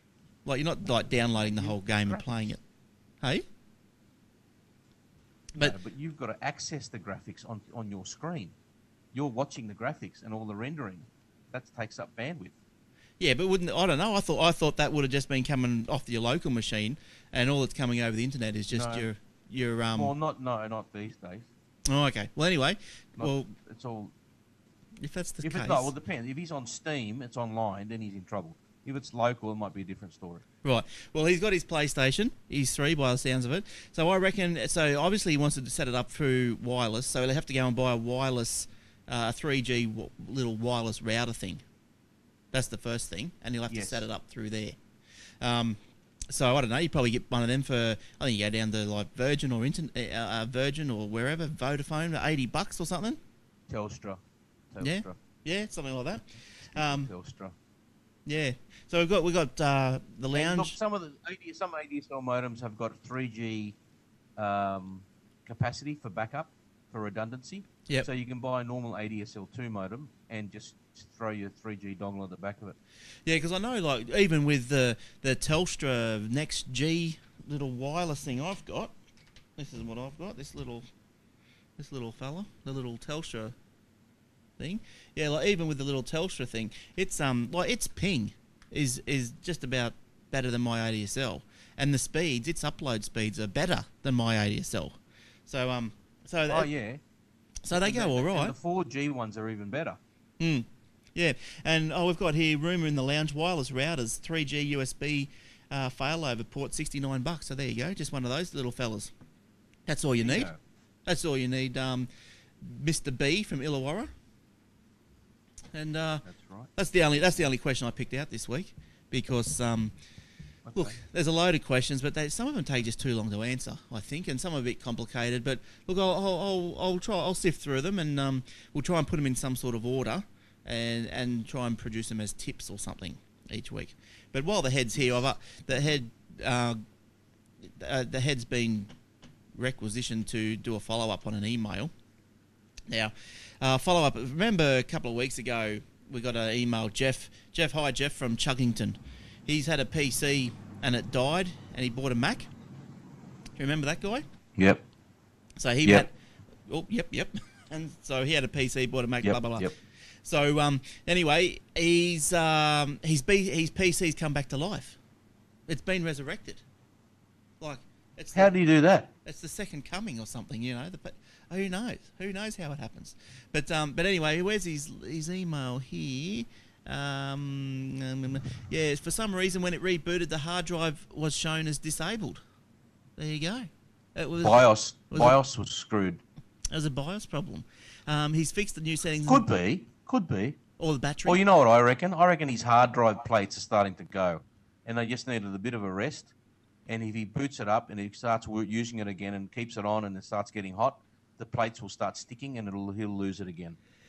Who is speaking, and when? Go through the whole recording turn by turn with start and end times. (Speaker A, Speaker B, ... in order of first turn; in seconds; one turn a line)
Speaker A: 0.5-2.6
Speaker B: 1.4-2.5
Speaker B: 5.6-8.6
Speaker B: 9.1-12.5
Speaker A: 13.2-20.1
Speaker B: 18.7-19.1
Speaker B: 19.9-21.5
Speaker A: 21.9-23.6
Speaker B: 23.2-24.1
Speaker A: 25.0-25.9
Speaker B: 25.4-30.4
Speaker A: 30.6-41.6
Speaker A: 42.5-44.8
Speaker B: 43.7-44.1
Speaker A: 45.4-45.8
Speaker A: 46.3-53.2
Speaker B: 53.7-55.2
Speaker A: 54.8-57.1
Speaker B: 56.7-57.5
Speaker A: 58.3-60.8
Speaker B: 60.3-63.8
Speaker B: 64.4-72.8
Speaker A: 73.3-78.9
Speaker A: 79.6-80.9
Speaker A: 81.8-83.5
Speaker A: 84.6-96.7
Speaker B: 96.5-97.0
Speaker A: 97.6-98.5
Speaker B: 97.7-100.0
Speaker A: 100.4-109.1
Speaker A: 109.9-110.5
Speaker B: 110.2-110.6
Speaker A: 111.1-112.1
Speaker A: 112.6-114.1
Speaker A: 115.7-120.0
Speaker B: 116.3-116.7
Speaker B: 120.7-121.0
Speaker A: 120.8-136.8
Speaker A: 137.8-138.9
Speaker A: 139.6-141.9
Speaker A: 142.9-152.5
Speaker A: 153.6-154.2
Speaker B: 154.6-154.8
Speaker A: 155.6-156.1
Speaker A: 156.7-159.7
Speaker B: 159.2-159.7
Speaker A: 160.2-165.0
Speaker A: 165.7-166.6
Speaker A: 167.6-168.6
Speaker B: 168.3-169.1
Speaker A: 169.2-182.4
Speaker A: 183.2-185.4
Speaker B: 184.4-186.2
Speaker A: 186.7-189.4
Speaker B: 189.2-190.6
Speaker A: 190.8-191.4
Speaker B: 191.2-196.3
Speaker B: 196.9-203.8